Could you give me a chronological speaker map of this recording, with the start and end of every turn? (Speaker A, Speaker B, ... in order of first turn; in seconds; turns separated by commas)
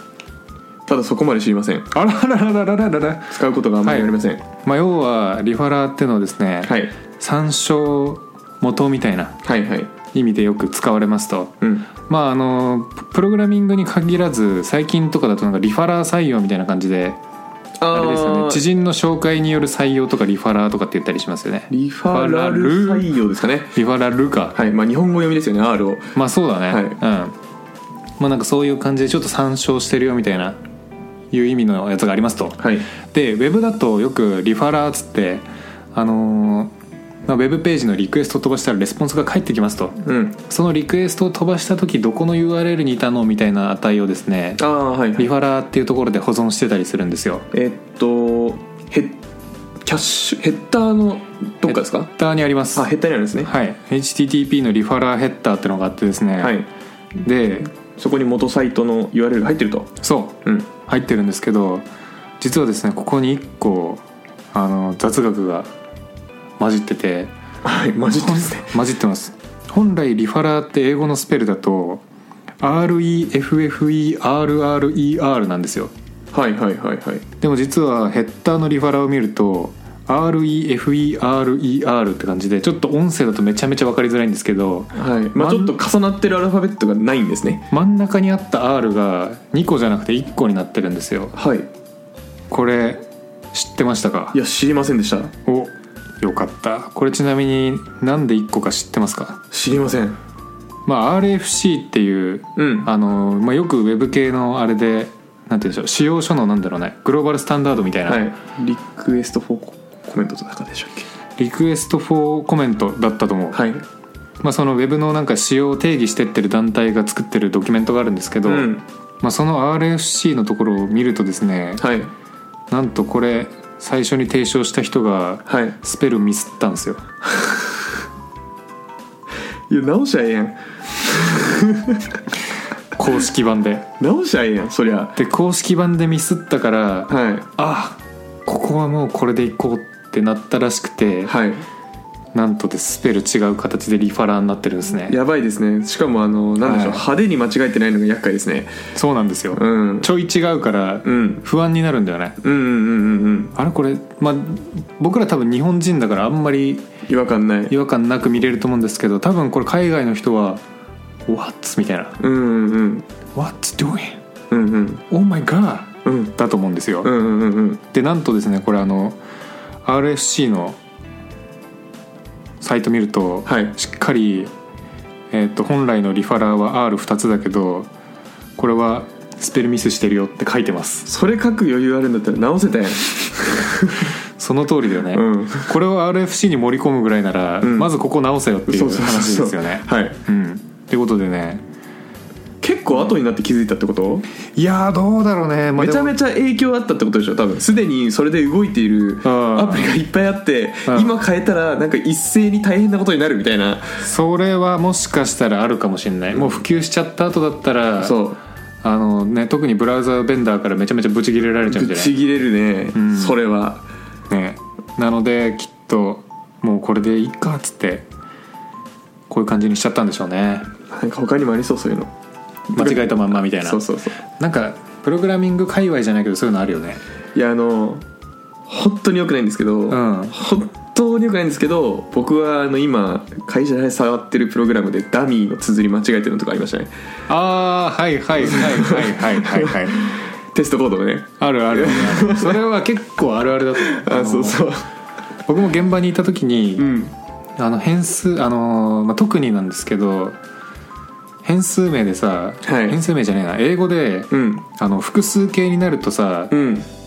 Speaker A: 0.9-1.9, Speaker B: 1.9-9.4, Speaker A: 3.3-4.4, Speaker A: 6.6-6.9, Speaker A: 9.4-9.9, Speaker B: 10.1-17.2, Speaker A: 11.6-11.9, Speaker A: 17.8-18.6, Speaker B: 17.9-23.1, Speaker A: 21.7-23.8, Speaker B: 23.8-24.6, Speaker A: 24.5-26.1, Speaker B: 26.1-27.4, Speaker A: 26.7-27.0, Speaker B: 28.2-30.6, Speaker B: 31.3-36.7, Speaker A: 32.6-32.9, Speaker B: 37.3-44.6, Speaker A: 40.0-40.4, Speaker A: 44.6-45.3, Speaker B: 45.2-47.5, Speaker A: 47.5-49.2, Speaker A: 49.9-52.1, Speaker B: 51.6-52.9, Speaker A: 52.8-53.5, Speaker B: 53.5-56.6, Speaker A: 56.4-56.7, Speaker B: 57.2-57.7, Speaker A: 58.0-59.9, Speaker B: 60.0-61.9, Speaker B: 62.4-65.7, Speaker B: 66.6-67.3, Speaker A: 67.6-68.7, Speaker B: 68.1-72.0, Speaker B: 72.6-75.9, Speaker A: 76.3-77.2, Speaker B: 77.4-85.8, Speaker A: 84.9-87.7, Speaker B: 87.7-91.3, Speaker A: 91.3-91.7, Speaker B: 92.5-94.4, Speaker A: 94.3-95.3, Speaker B: 95.5-99.4, Speaker A: 99.5-100.2, Speaker B: 100.9-108.3, Speaker A: 102.6-102.9, Speaker A: 108.1-111.1, Speaker B: 111.4-113.6, Speaker A: 113.5-113.8, Speaker B: 114.4-121.8, Speaker A: 118.5-118.8, Speaker A: 121.8-122.1, Speaker B: 122.7-127.0, Speaker A: 125.5-125.8, Speaker A: 129.7-132.0, Speaker B: 132.9-133.9, Speaker A: 134.0-135.2, Speaker B: 135.2-141.3, Speaker A: 137.1-137.5, Speaker A: 141.3-141.6, Speaker B: 142.3-145.2, Speaker A: 145.1-148.7, Speaker B: 146.6-147.1, Speaker B: 148.9-152.4, Speaker A: 149.5-150.1, Speaker A: 151.0-151.4, Speaker A: 152.4-153.6, Speaker B: 153.6-156.9, Speaker A: 157.1-157.7, Speaker B: 157.7-160.6, Speaker B: 161.3-162.2, Speaker A: 162.2-163.1, Speaker B: 163.3-164.2, Speaker A: 164.5-165.1, Speaker B: 165.1-167.1, Speaker A: 166.1-166.3, Speaker A: 167.0-167.8, Speaker B: 167.9-169.2, Speaker B: 169.8-170.8, Speaker B: 172.6-174.5, Speaker A: 173.5-173.8, Speaker B: 175.3-177.9, Speaker B: 178.6-181.1, Speaker A: 181.1-184.1, Speaker B: 184.4-191.6, Speaker A: 185.1-185.7, Speaker A: 187.6-187.9, Speaker A: 188.7-190.2, Speaker A: 192.6-194.3, Speaker B: 194.6-196.2, Speaker A: 195.8-203.9, Speaker B: 199.2-199.9, Speaker B: 200.9-201.2, Speaker B: 204.0-208.2, Speaker A: 206.3-206.6, Speaker A: 208.0-208.4, Speaker B: 208.8-212.2, Speaker A: 211.7-213.9, Speaker B: 212.9-213.4, Speaker B: 214.3-218.1, Speaker B: 219.3-220.7, Speaker A: 220.9-222.1, Speaker A: 222.7-224.2, Speaker B: 222.8-223.8, Speaker B: 224.4-227.0, Speaker A: 227.3-228.1, Speaker A: 228.7-236.9, Speaker B: 229.9-230.3, Speaker B: 237.3-240.1, Speaker A: 238.4-242.6, Speaker B: 241.4-244.7, Speaker A: 243.8-244.8, Speaker B: 245.5-246.9, Speaker A: 246.8-247.1, Speaker B: 247.6-250.4, Speaker B: 251.4-256.5, Speaker A: 252.7-253.0, Speaker A: 254.3-254.7, Speaker A: 256.5-256.9